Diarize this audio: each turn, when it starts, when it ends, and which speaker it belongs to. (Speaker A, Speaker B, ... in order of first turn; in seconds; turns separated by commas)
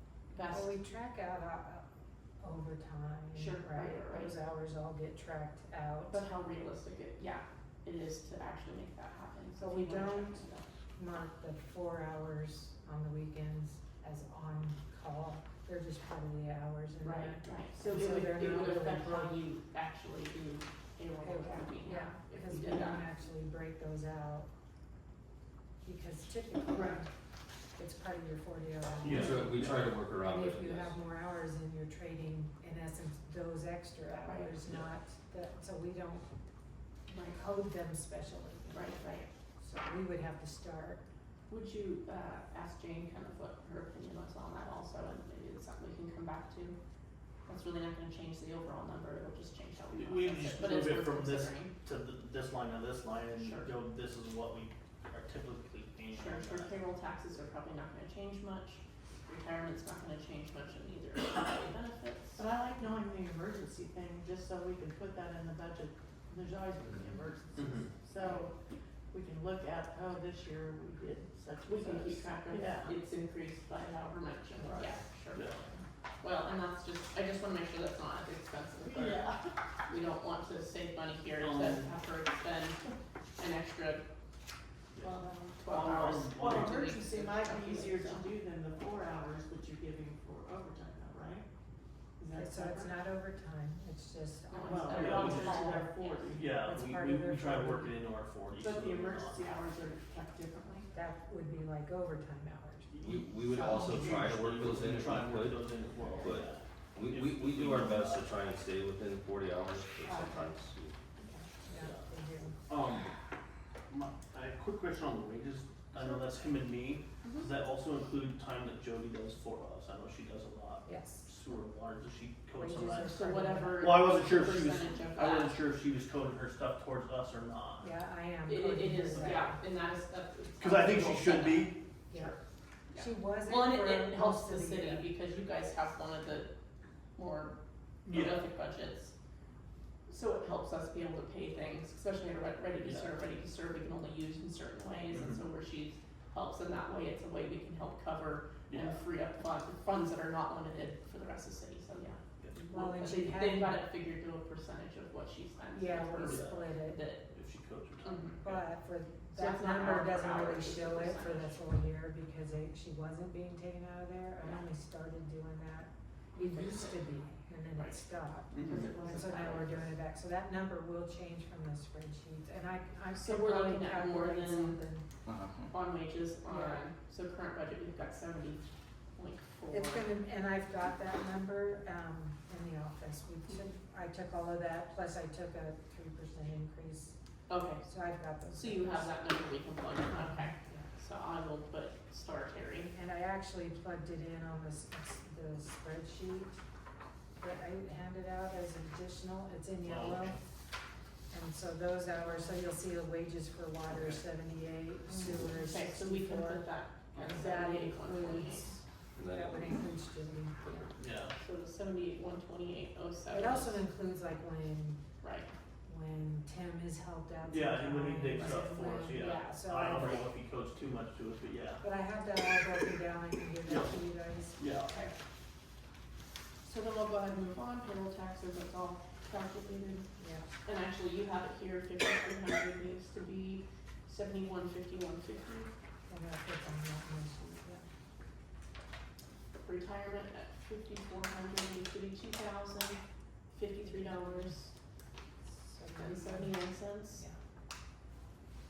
Speaker A: 0.3-0.8, Speaker B: 0.5-1.8, Speaker B: 2.4-6.2, Speaker A: 3.4-4.3, Speaker A: 6.1-10.7, Speaker B: 9.6-10.4, Speaker B: 11.0-19.4, Speaker A: 17.0-23.1, Speaker B: 21.2-24.5, Speaker B: 25.8-27.1, Speaker B: 27.8-36.2, Speaker C: 29.0-30.0, Speaker D: 29.1-30.9, Speaker A: 34.1-34.6, Speaker A: 37.1-37.4, Speaker B: 37.2-41.0, Speaker A: 38.7-39.3, Speaker A: 41.5-46.8, Speaker A: 47.5-51.7, Speaker C: 49.9-56.8, Speaker A: 53.4-53.7, Speaker A: 56.1-62.4, Speaker E: 62.4-68.5, Speaker C: 67.6-67.9, Speaker E: 69.1-73.0, Speaker A: 71.6-75.7, Speaker E: 74.6-75.0, Speaker A: 76.2-79.3, Speaker E: 78.9-79.5, Speaker A: 79.9-82.8, Speaker C: 81.4-81.9, Speaker A: 83.4-84.0, Speaker E: 85.0-85.5, Speaker A: 85.0-88.3, Speaker C: 85.7-86.9, Speaker E: 86.1-91.5, Speaker E: 92.2-92.9, Speaker B: 92.3-95.5, Speaker A: 94.5-96.3, Speaker E: 94.7-96.6, Speaker C: 94.9-95.7, Speaker C: 96.3-99.4, Speaker B: 96.6-98.0, Speaker E: 98.5-100.9, Speaker B: 100.9-103.0, Speaker C: 102.9-108.4, Speaker D: 103.0-105.7, Speaker D: 106.2-110.9, Speaker B: 111.7-112.6, Speaker C: 112.7-113.1, Speaker C: 113.9-127.9, Speaker B: 120.8-121.3, Speaker B: 122.6-124.3, Speaker A: 122.9-125.6, Speaker B: 127.8-129.6, Speaker A: 128.5-131.7, Speaker C: 130.6-132.3, Speaker A: 132.9-136.5, Speaker B: 133.0-135.1, Speaker A: 137.2-137.6, Speaker C: 138.1-138.4, Speaker A: 138.1-139.1, Speaker A: 140.1-157.2, Speaker C: 142.8-143.1, Speaker C: 145.1-145.4, Speaker C: 148.7-149.0, Speaker B: 152.7-153.9, Speaker B: 155.7-157.0, Speaker C: 156.1-156.6, Speaker C: 157.3-158.6, Speaker A: 158.1-158.4, Speaker B: 158.4-175.1, Speaker A: 159.3-161.6, Speaker A: 166.3-167.0, Speaker A: 167.8-168.0, Speaker C: 168.5-168.8, Speaker A: 168.6-170.0, Speaker A: 173.2-174.8, Speaker A: 175.7-178.6, Speaker B: 176.5-176.9, Speaker A: 179.2-180.1, Speaker B: 179.7-187.2, Speaker A: 187.5-187.8, Speaker B: 187.8-189.1, Speaker A: 188.5-192.9, Speaker B: 190.1-190.9, Speaker B: 192.9-196.6, Speaker B: 197.4-200.4, Speaker C: 199.8-200.4, Speaker B: 201.3-206.7, Speaker A: 205.1-208.8, Speaker C: 207.2-207.4, Speaker B: 207.2-210.9, Speaker D: 209.2-209.7, Speaker C: 211.0-211.3, Speaker A: 211.4-213.8, Speaker B: 213.3-215.0, Speaker A: 215.2-215.5, Speaker B: 215.9-220.3, Speaker C: 217.5-221.8, Speaker A: 219.1-219.7, Speaker B: 221.8-224.7, Speaker C: 223.7-224.0, Speaker C: 224.6-224.9, Speaker A: 224.9-225.1, Speaker A: 226.6-230.1, Speaker B: 230.2-230.4, Speaker A: 230.7-235.7, Speaker B: 236.1-237.8, Speaker A: 239.6-243.0, Speaker A: 243.5-244.7, Speaker B: 243.8-244.5, Speaker B: 245.4-247.4, Speaker A: 246.0-247.2